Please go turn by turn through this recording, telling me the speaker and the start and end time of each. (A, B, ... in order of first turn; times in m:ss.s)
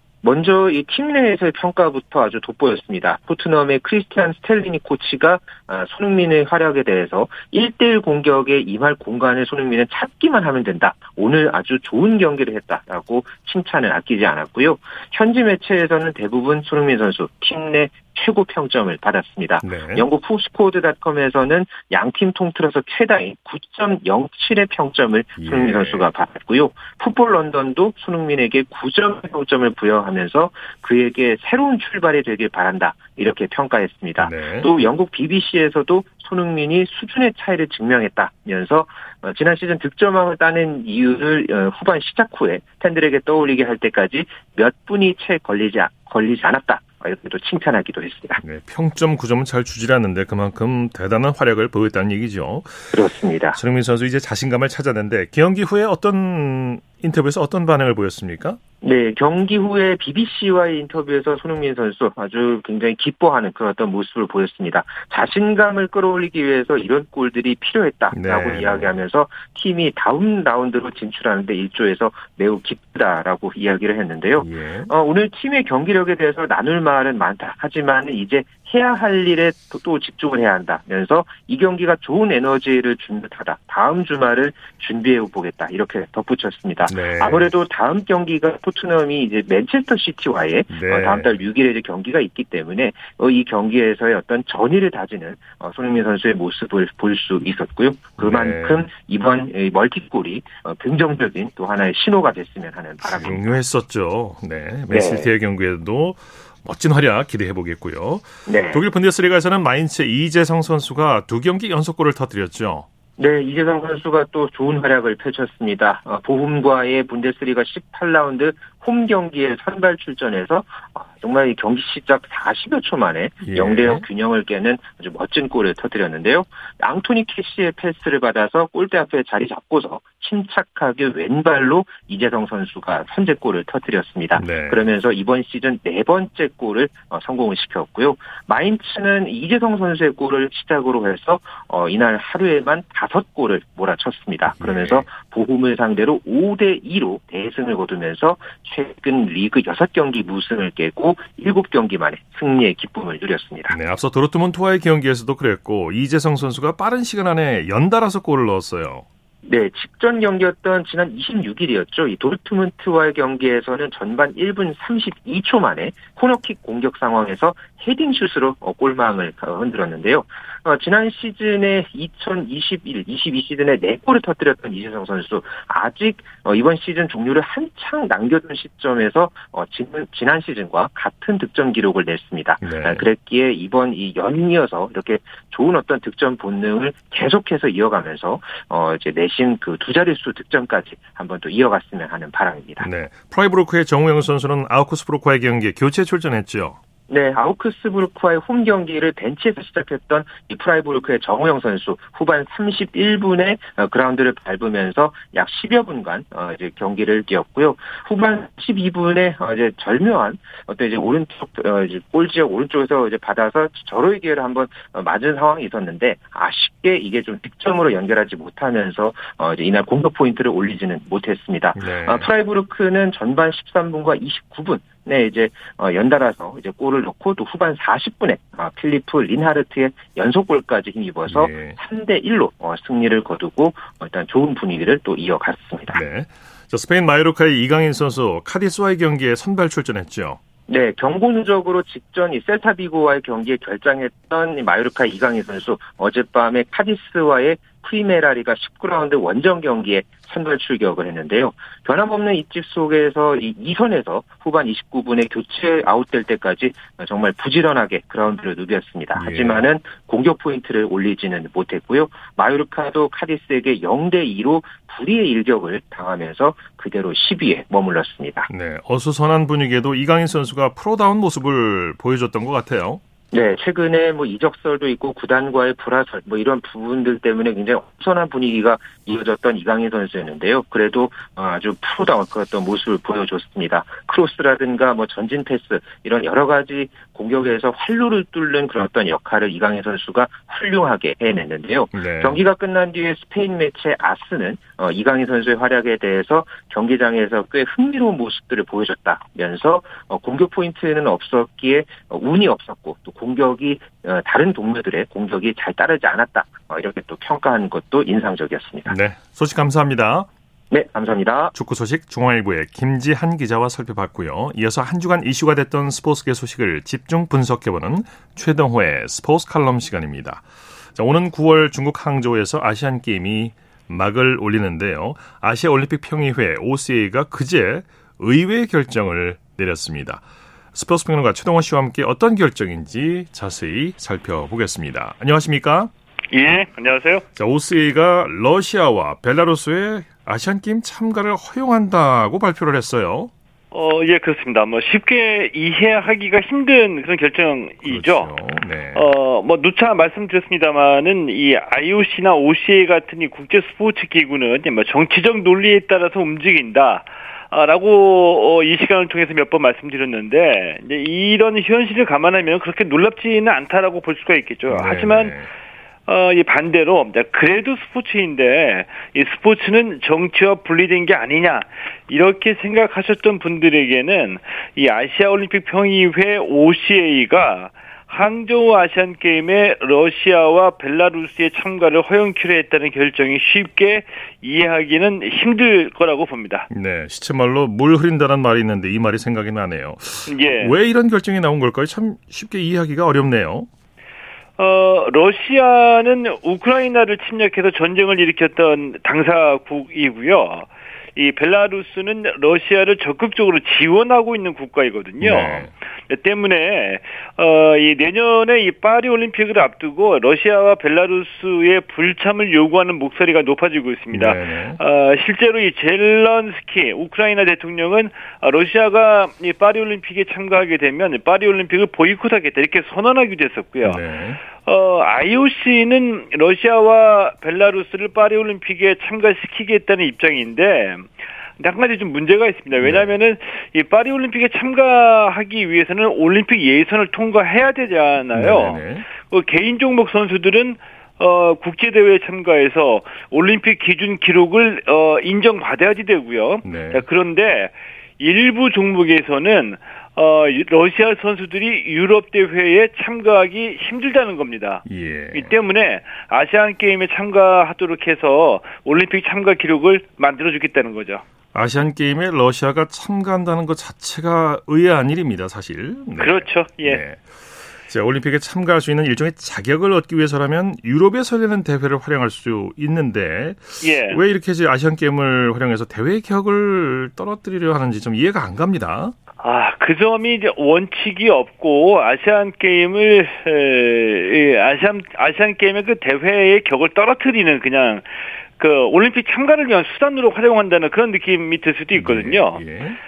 0:00.2-0:48.4 A
0:19.6-0:20.1 B
0:25.4-0:26.0 B
0:34.2-0:34.7 B
0:48.4-0:52.9 B
0:52.9-0:53.6 A
0:53.5-0:58.6 B
0:58.8-1:43.5 A
1:08.1-1:08.9 B
1:14.4-1:14.9 B
1:26.9-1:27.5 B
1:30.7-1:31.3 B
1:38.2-1:38.9 B
1:43.0-1:52.8 B
1:44.9-1:45.3 A
1:48.4-1:48.8 A
1:53.2-2:33.8 A
2:03.4-2:04.0 B
2:14.3-2:14.8 B
2:24.5-2:25.0 B
2:33.7-2:39.0 B
2:39.4-3:12.8 A
3:02.6-3:03.0 B
3:12.8-3:16.8 B
3:17.1-3:56.0 A
3:41.7-3:42.3 B
3:51.3-3:51.8 B
3:55.9-4:00.4 B
4:00.7-4:28.5 A
4:19.1-4:19.6 B
4:28.5-4:33.0 B
4:33.3-5:08.9 A
4:51.9-4:52.4 B
5:08.9-5:10.3 B
5:10.7-5:11.5 A
5:11.5-5:20.4 B
5:21.0-5:30.2 B
5:30.7-5:35.9 B
5:36.3-5:37.2 C
5:37.4-5:43.3 B
5:43.7-5:48.3 C
5:47.8-5:49.1 B
5:48.9-6:05.4 C
6:04.7-6:05.5 B
6:06.1-6:26.7 C
6:26.7-6:33.7 B
6:30.3-6:30.7 C
6:34.6-7:04.0 C
6:45.2-6:45.7 B
6:54.1-6:54.8 B
7:03.8-7:04.4 B
7:04.6-7:41.2 C
7:12.8-7:13.1 B
7:18.3-7:19.1 B
7:26.6-7:27.0 B
7:34.8-7:35.5 B
7:41.5-7:47.3 B
7:46.2-7:47.0 C
7:47.9-7:59.2 B
7:53.8-7:54.2 C
7:59.4-8:12.6 C
8:11.9-8:13.0 B